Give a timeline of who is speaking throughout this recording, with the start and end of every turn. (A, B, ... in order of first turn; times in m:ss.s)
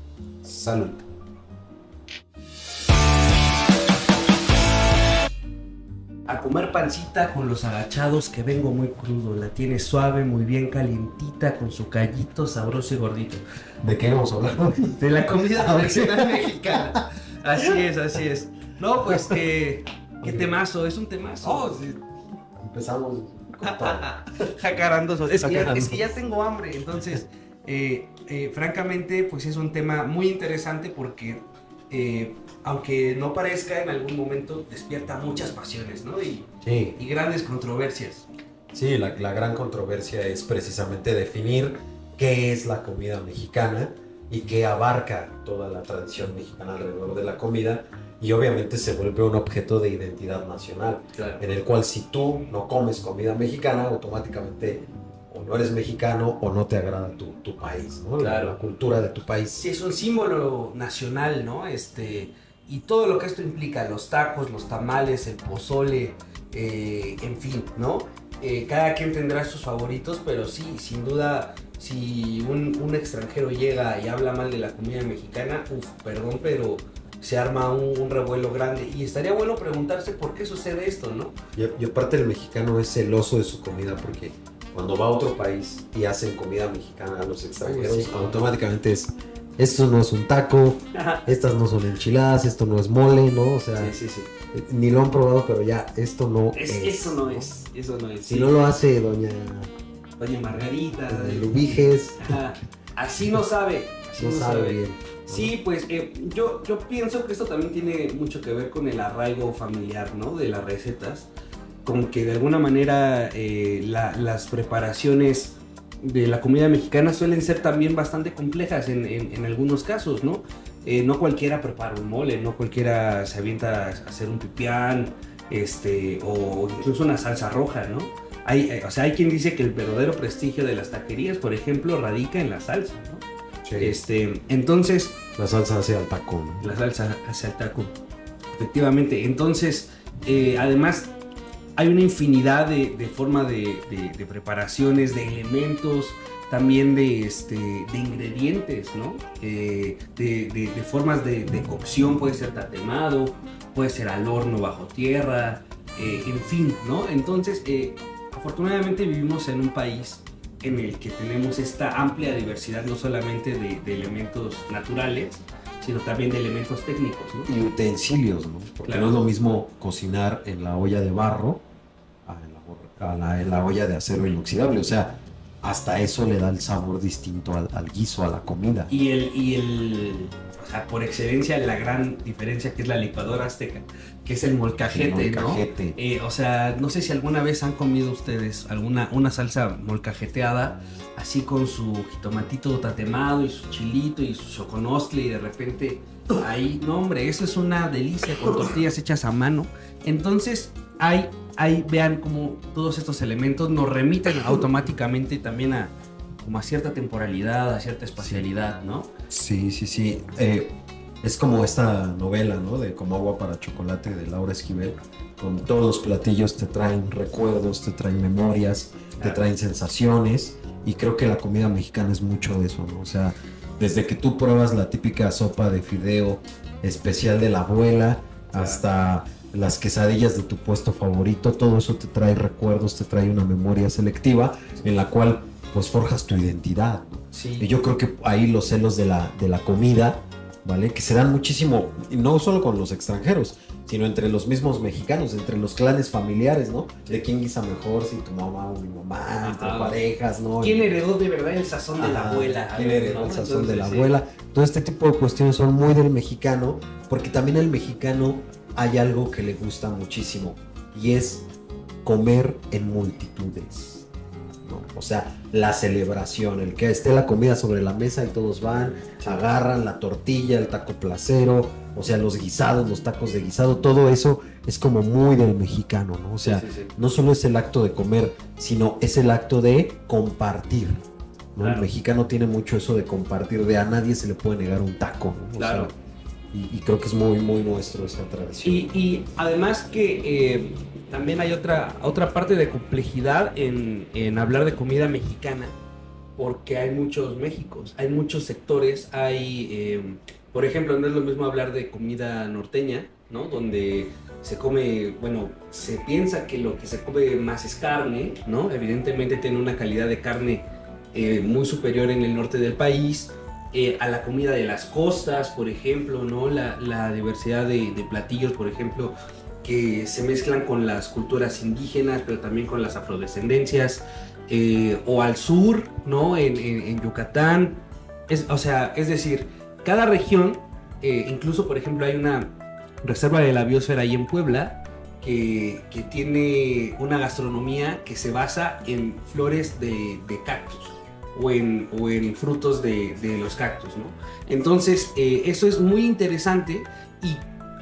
0:00.4-0:01.0 A
0:06.3-0:13.4 B
0:13.8-0:17.0 A
0:15.0-0:22.0 B
0:19.0-0:19.4 A
0:20.2-0:20.5 A
0:21.4-0:21.8 A
0:22.6-0:24.1 A
0:23.6-0:38.3 B
0:25.3-0:26.1 A
0:36.6-0:37.0 A
0:38.7-0:59.6 A
0:51.2-0:51.4 B
0:58.2-0:58.6 B
0:59.5-1:21.4 B
1:21.5-1:33.9 A
1:27.6-1:28.4 B
1:30.9-1:31.2 B
1:33.8-1:34.3 B
1:34.5-1:37.5 A
1:36.5-1:38.7 B
1:38.2-1:39.7 A
1:40.2-1:51.3 B
1:41.1-1:42.4 A
1:44.2-1:45.5 A
1:51.8-2:13.2 B
2:13.6-2:13.9 A
2:13.8-2:15.2 B
2:15.4-2:16.7 A
2:16.6-2:17.9 B
2:18.5-2:21.1 B
2:21.8-2:47.5 B
2:47.5-2:51.6 A
2:48.8-2:49.2 B
2:52.2-2:58.9 A
2:58.9-3:29.1 B
3:04.8-3:06.0 A
3:29.3-4:10.9 A
3:39.2-3:39.4 B
3:48.5-3:48.8 B
3:57.3-3:57.7 B
4:09.4-4:10.0 B
4:10.6-4:14.1 B
4:12.0-4:21.5 A
4:22.0-4:24.1 A
4:24.6-4:41.0 A
4:36.4-4:36.9 B
4:41.5-4:45.9 A
4:41.6-4:41.9 B
4:45.5-4:45.9 B
4:46.5-4:48.9 A
4:48.6-4:55.8 B
4:56.4-5:47.4 B